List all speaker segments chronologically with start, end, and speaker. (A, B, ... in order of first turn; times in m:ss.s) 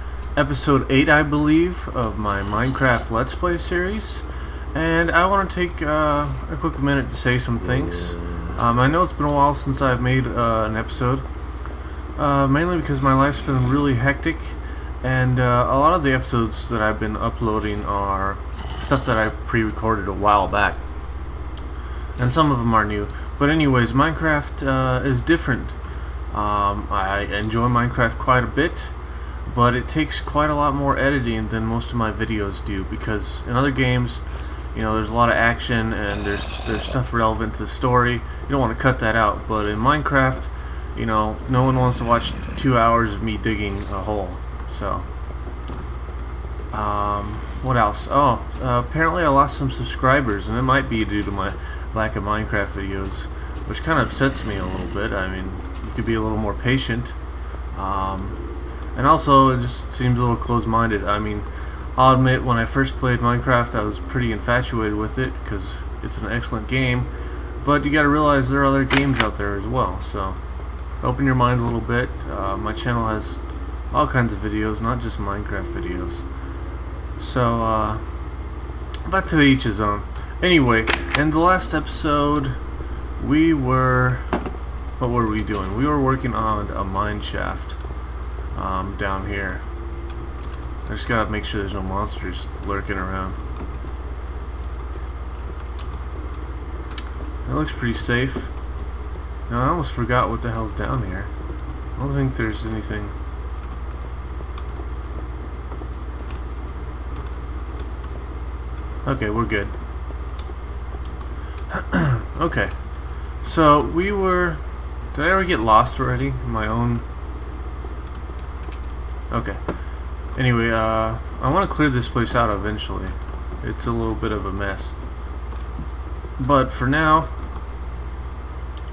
0:00.4-0:11.2 A
0:12.2-0:20.8 A
0:22.2-0:25.8 A
0:26.3-0:28.9 A
0:29.5-0:34.2 A
0:34.7-0:45.1 A
0:46.7-0:57.2 A
0:57.7-0:58.4 A
0:59.0-1:07.1 A
1:07.6-1:10.4 A
1:11.0-1:13.4 A
1:13.9-1:16.2 A
1:17.2-1:18.0 A
1:19.1-1:22.6 A
1:23.2-1:24.3 A
1:25.0-1:27.8 A
1:28.5-1:29.6 A
1:30.8-1:33.4 A
1:37.5-1:38.5 A
1:39.5-1:41.3 A
1:42.0-1:43.1 A
1:49.0-1:49.7 A
1:51.7-1:52.7 A
1:53.4-1:54.6 A
1:55.1-1:57.0 A
1:59.3-1:59.6 A
2:00.3-2:04.9 A
2:06.4-2:07.3 A